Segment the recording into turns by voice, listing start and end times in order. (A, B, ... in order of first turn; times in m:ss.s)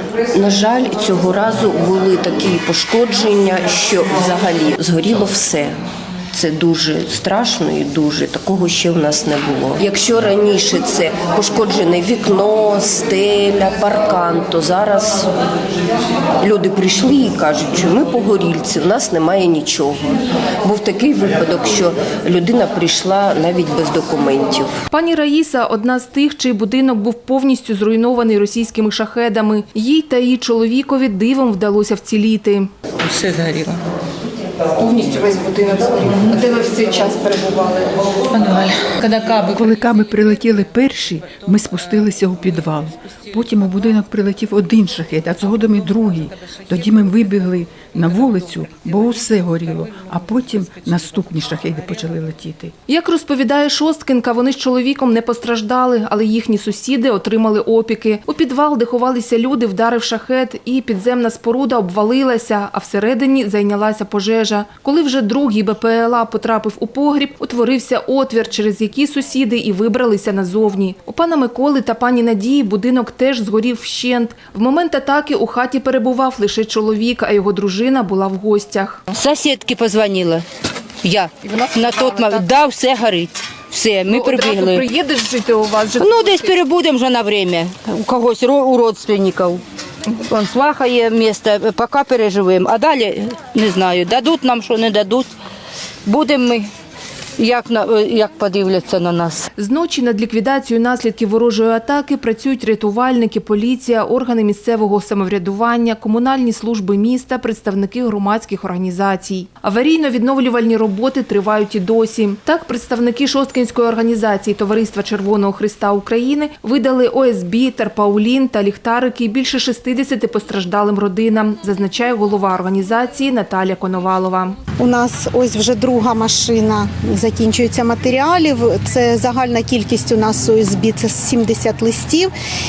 0:00.3-0:05.8 A
0:06.3-0:15.3 A
0:16.4-0:24.8 A
0:24.9-0:32.7 B
0:34.8-0:37.9 B
0:39.4-0:52.7 C
0:52.9-1:19.0 B
1:19.1-1:20.4 D
1:21.0-1:24.8 D
1:21.5-1:22.4 B
1:24.1-1:26.5 B
1:26.0-1:29.6 D
1:30.3-1:35.3 D
1:36.0-1:36.6 D
1:37.4-1:39.5 D
1:39.6-2:04.6 B
2:04.8-2:12.3 E